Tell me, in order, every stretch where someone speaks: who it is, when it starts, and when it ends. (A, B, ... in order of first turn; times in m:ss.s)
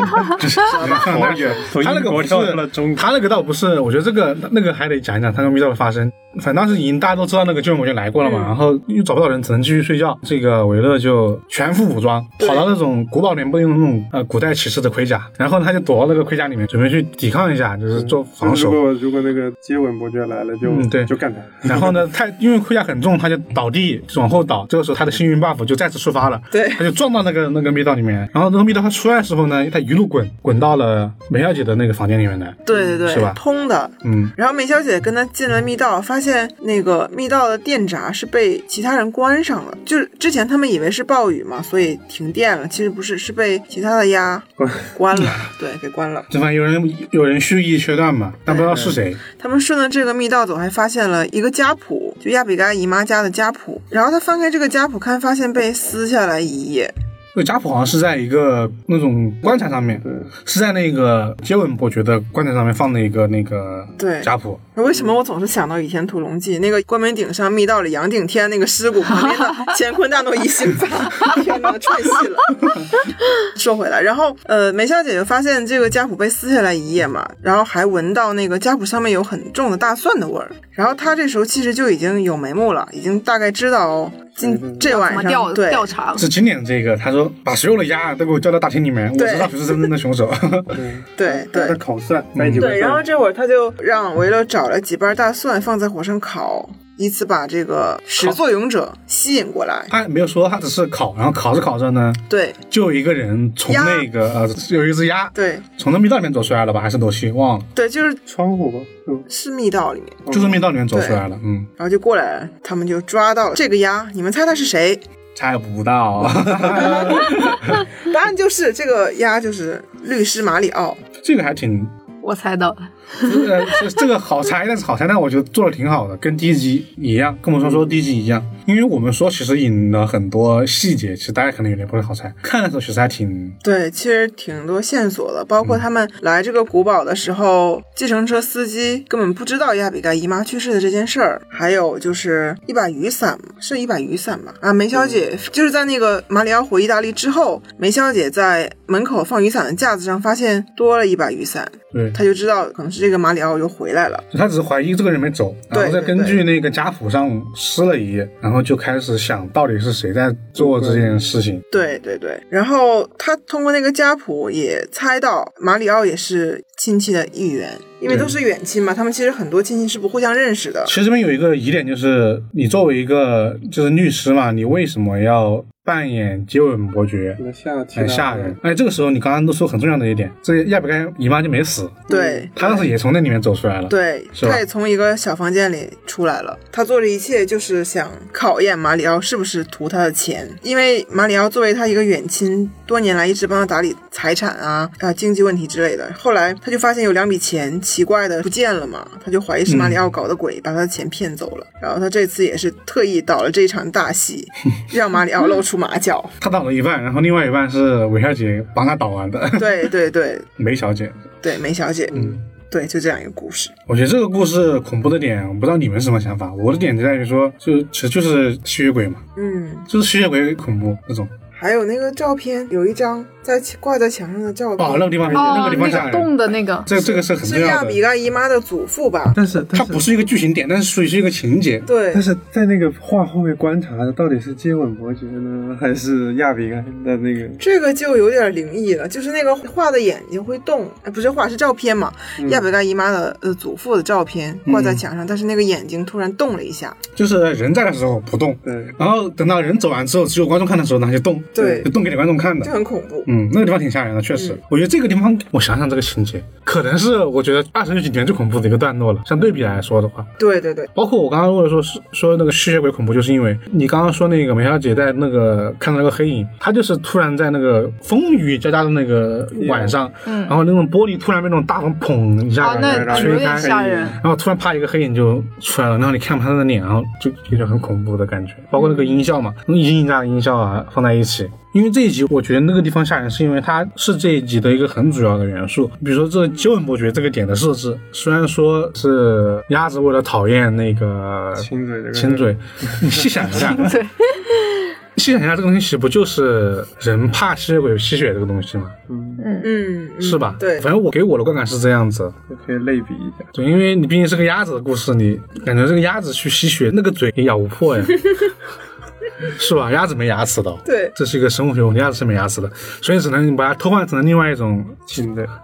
0:00.4-0:18.8 A
0:00.6-0:01.6 B
0:00.8-0:03.1 C
0:08.2-0:08.5 B
0:12.4-0:12.7 B
0:17.9-0:22.0 C
0:20.6-0:33.4 A
0:26.5-0:26.8 B
0:32.6-0:46.3 B
0:32.7-0:33.0 C
0:34.0-0:34.3 A
0:44.6-0:44.9 C
0:46.3-0:49.2 A
0:48.5-0:56.9 B
0:57.3-1:04.6 A
0:59.4-1:00.3 C
1:04.0-1:12.8 B
1:04.8-1:05.2 C
1:13.4-1:25.9 B
1:24.4-1:24.9 C
1:24.9-1:26.3 D
1:26.1-1:30.8 A
1:29.2-1:29.9 B
1:30.7-1:33.0 C
1:31.2-1:31.8 B
1:32.3-1:32.8 A
1:32.6-1:39.9 B
1:39.9-1:47.7 A
1:42.3-1:42.6 B
1:43.7-1:44.1 B
1:45.3-1:45.6 B
1:47.7-1:48.2 B
1:48.2-1:49.3 C
1:49.3-1:50.2 B
1:50.2-1:50.6 C
1:50.3-1:51.7 A
1:50.9-1:51.2 B
1:51.8-1:55.0 B
1:55.3-1:57.8 A
1:56.7-2:01.0 B
2:01.2-2:01.9 A
2:02.2-2:03.7 D
2:03.2-2:13.6 A
2:07.6-2:08.0 C
2:13.6-2:34.2 B
2:24.9-2:25.2 C
2:31.9-2:32.2 A
2:34.3-2:41.6 A
2:35.7-2:36.4 B
2:40.6-2:41.4 C
2:41.7-2:50.9 B
2:48.1-2:48.3 A
2:50.8-2:57.4 A
2:57.4-2:58.6 C
2:57.9-3:02.0 A
3:02.1-3:02.9 B
3:02.1-3:02.5 C
3:02.6-3:04.6 A
3:03.9-3:26.3 B
3:19.6-3:20.0 A
3:26.4-3:29.9 A
3:29.6-3:30.5 B
3:30.6-3:31.3 A
3:31.4-3:33.7 B
3:32.1-3:32.4 A
3:33.9-3:39.2 A
3:39.4-3:39.9 B
3:39.9-3:41.3 A
3:41.5-3:45.4 B
3:44.8-3:46.3 A
3:45.2-3:46.0 C
3:45.3-3:46.9 D
3:46.8-3:48.0 A
3:46.9-3:49.4 B
3:49.3-3:50.0 C
3:49.7-3:51.9 A
3:51.8-3:52.2 B
3:52.1-3:57.6 C
3:57.6-4:07.0 B
4:02.4-4:02.7 C
4:04.6-4:05.0 A
4:07.1-4:12.7 A
4:08.6-4:09.0 C
4:11.5-4:11.9 B
4:11.6-4:11.9 C
4:12.6-4:13.3 B
4:13.2-4:20.3 A
4:19.4-4:19.8 C
4:20.4-4:20.9 B
4:20.9-4:53.9 A
4:29.6-4:30.0 C
4:30.2-4:30.6 D
4:32.6-4:34.2 D
4:32.6-4:34.2 C
4:38.8-4:39.1 B
4:51.6-4:53.7 C
4:53.8-4:54.9 D
4:55.1-4:58.9 A
4:59.1-4:59.4 C
4:59.4-4:59.7 D
4:59.6-5:00.9 B
5:00.2-5:02.4 A
5:02.5-5:03.5 C
5:03.5-5:08.3 A
5:09.4-5:15.2 A
5:10.8-5:11.1 B
5:15.1-5:15.5 C